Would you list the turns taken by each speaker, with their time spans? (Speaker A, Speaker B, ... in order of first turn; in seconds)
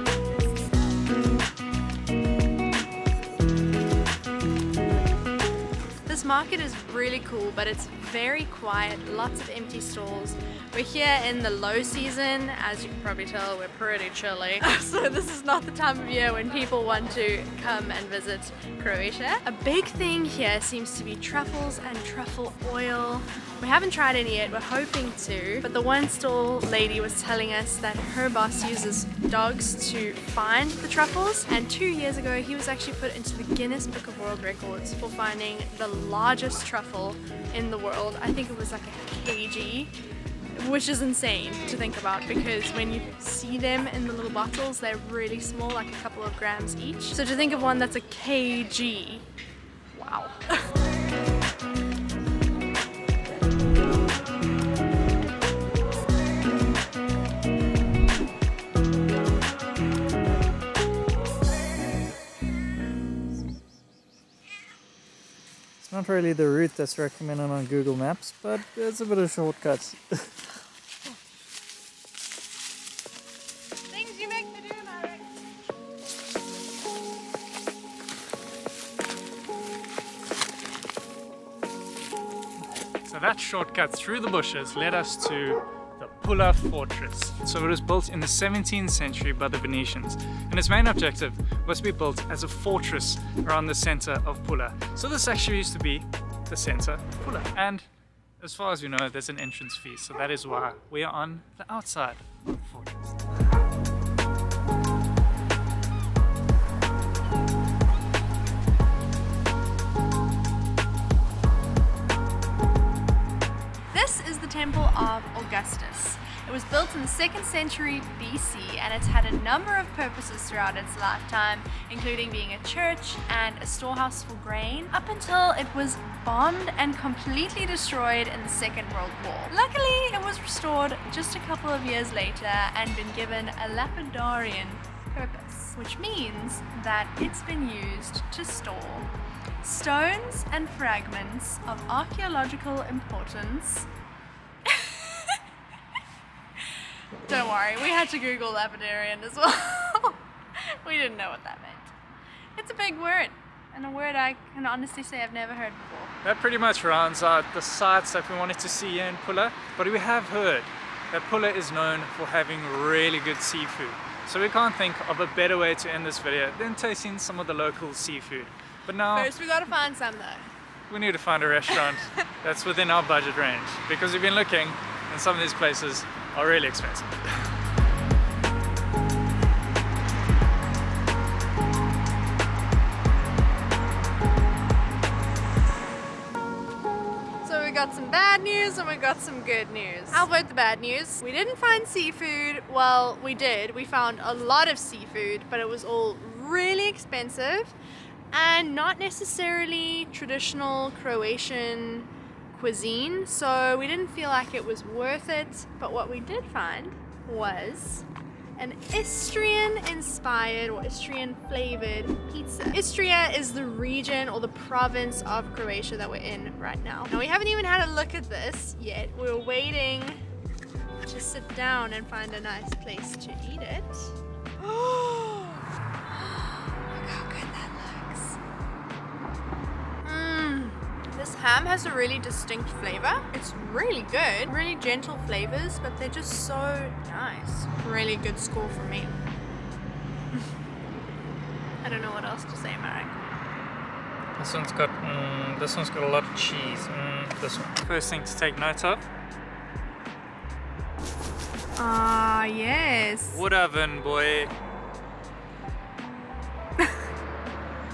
Speaker A: 6.1-39.9, 40.5-49.2, 49.9-50.6, 73.9-75.3, 113.9-143.9, 144.7-145.4, 147.2-151.9, 152.6-156.1, 169.1-170.5, 187.4-197.7, 198.3-208.1, 208.6-220.2, 221.1-228.4, 230.0-239.2, 241.8-243.3, 251.8-253.4
Speaker B: 65.8-70.3, 83.0-97.9, 98.4-103.3, 156.2-169.3, 170.9-177.4, 244.4-249.1, 253.3-254.5